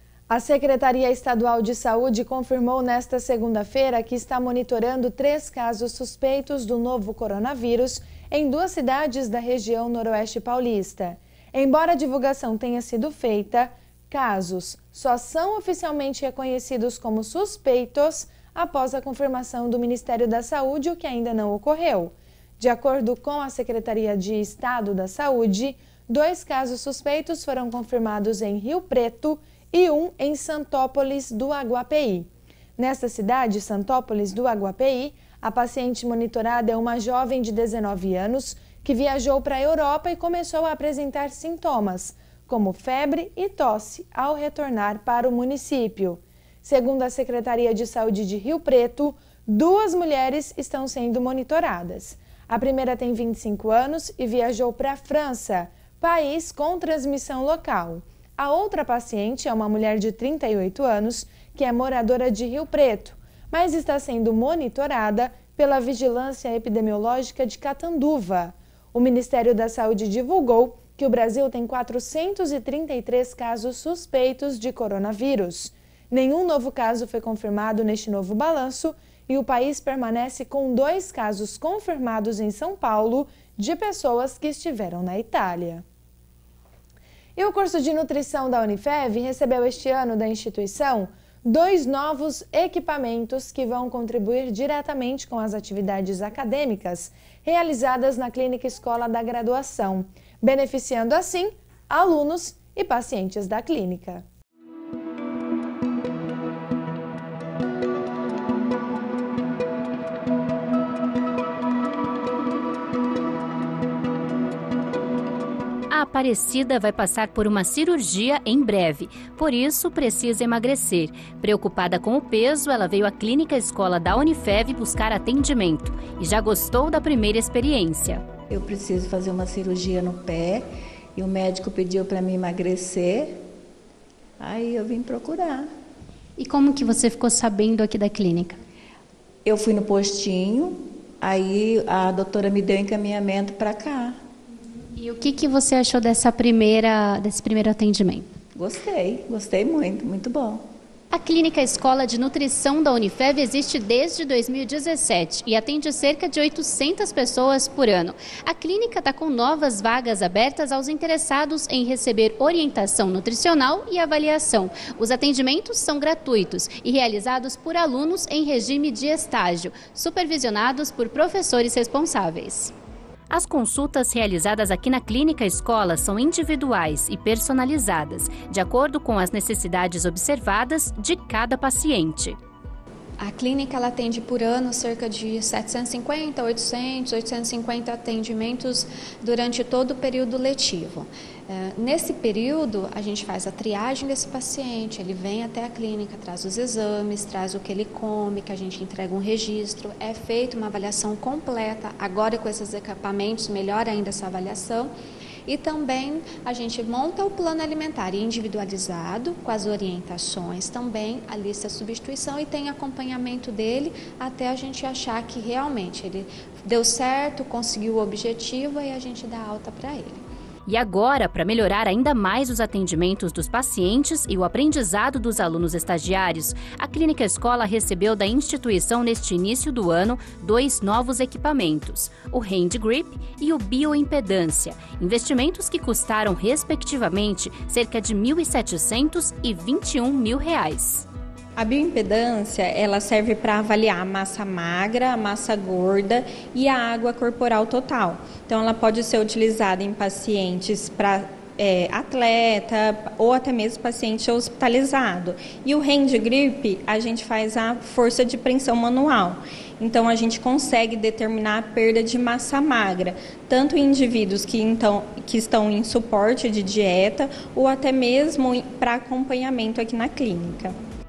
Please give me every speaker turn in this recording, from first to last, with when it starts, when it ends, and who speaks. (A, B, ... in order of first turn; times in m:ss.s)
0:00.3-1:25.8 A
1:27.4-1:44.2 A
1:55.9-2:08.2 B
2:08.5-2:13.4 C
2:14.4-2:15.7 C
2:16.4-2:18.6 B
2:19.4-2:24.2 C
2:25.0-2:28.3 B
2:28.6-2:30.6 C
2:31.1-2:52.7 B
2:53.3-3:02.4 B
3:03.2-3:24.9 D
3:25.5-3:40.2 D
3:40.7-4:01.1 B
4:01.6-4:30.8 E